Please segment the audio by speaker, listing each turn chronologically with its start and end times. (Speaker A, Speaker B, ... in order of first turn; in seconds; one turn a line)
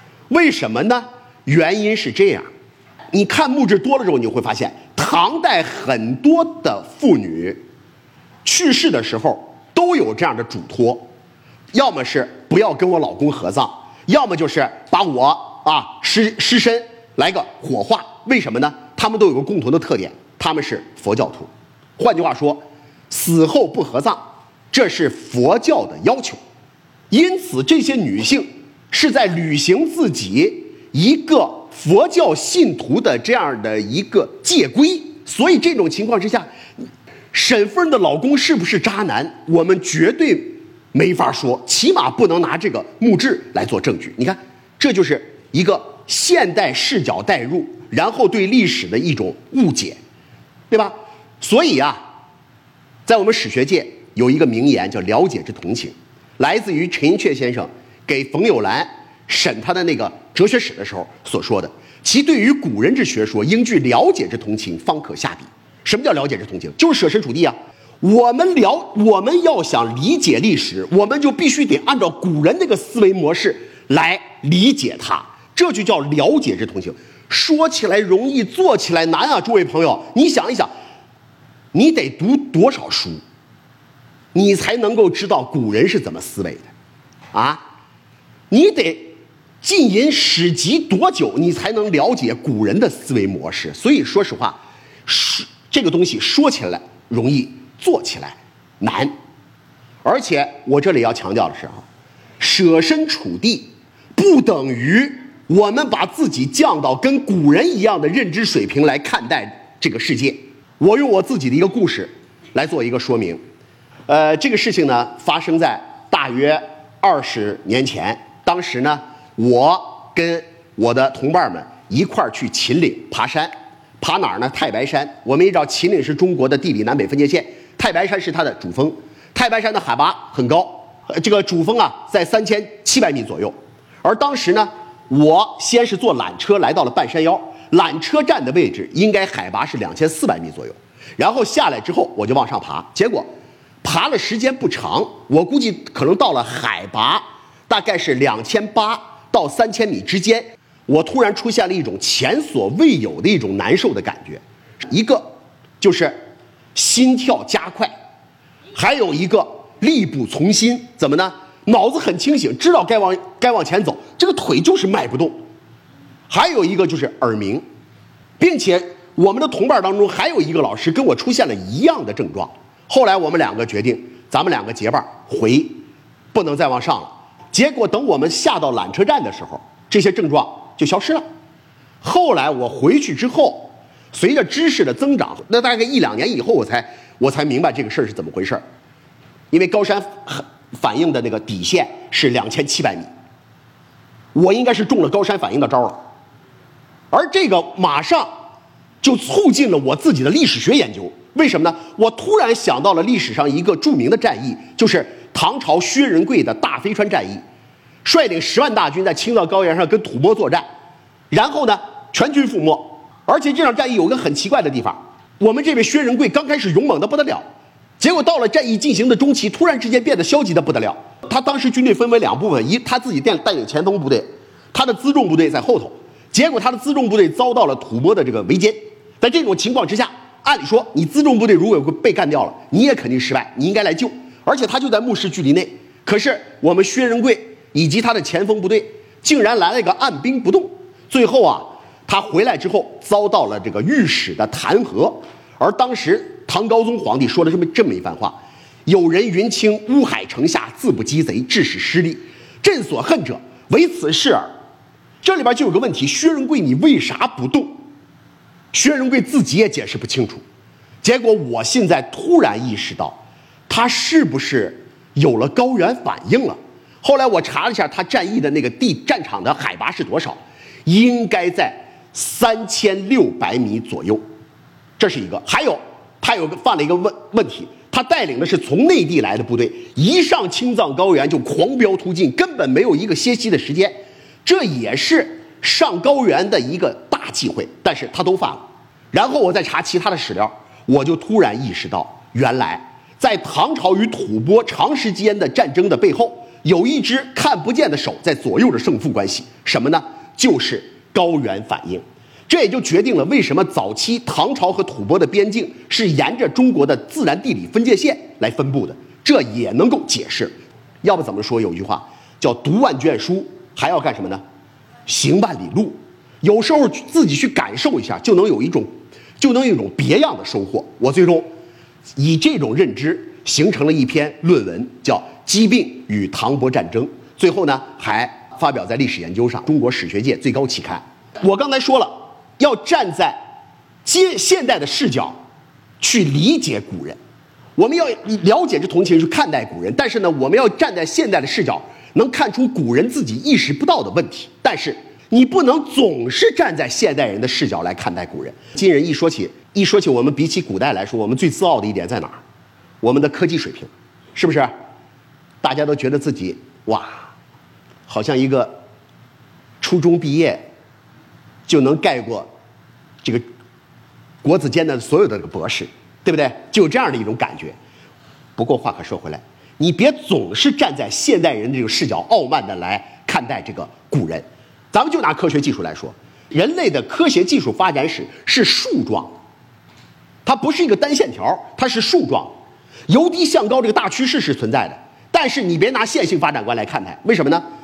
Speaker A: 0.3-2.5
Speaker A: 3.1-7.6
Speaker A: 8.4-11.1
Speaker A: 11.7-26.4
Speaker A: 27.1-36.5
Speaker A: 37.3-50.0
Speaker A: 50.7-52.0
Speaker A: 53.1-80.7
Speaker A: 81.7-83.2
Speaker A: 84.3-86.7
Speaker A: 87.3-87.6
Speaker A: 88.5-99.1
Speaker A: 100.0-101.8
Speaker A: 102.4-113.4
Speaker A: 114.1-143.3
Speaker A: 143.8-156.2
Speaker A: 156.8-157.9
Speaker A: 158.7-165.4
Speaker A: 166.3-167.6
Speaker A: 168.4-181.2
Speaker A: 182.0-188.6
Speaker A: 189.5-193.1
Speaker A: 194.3-196.0
Speaker A: 197.1-198.3
Speaker A: 199.0-207.4
Speaker A: 208.0-210.7
Speaker A: 211.3-217.4
Speaker A: 218.0-254.5
Speaker A: 255.2-257.8
Speaker A: 258.7-260.4
Speaker A: 261.0-274.2
Speaker A: 275.0-314.4
Speaker A: 315.1-321.5
Speaker A: 322.2-333.4
Speaker A: 334.1-335.4
Speaker A: 336.0-337.2
Speaker A: 337.8-352.4
Speaker A: 353.0-354.7
Speaker A: 355.6-357.3
Speaker A: 358.1-358.8
Speaker A: 359.8-360.7
Speaker A: 361.7-362.5
Speaker A: 364.4-367.8
Speaker A: 368.6-379.3
Speaker A: 380.4-382.6
Speaker A: 383.1-387.6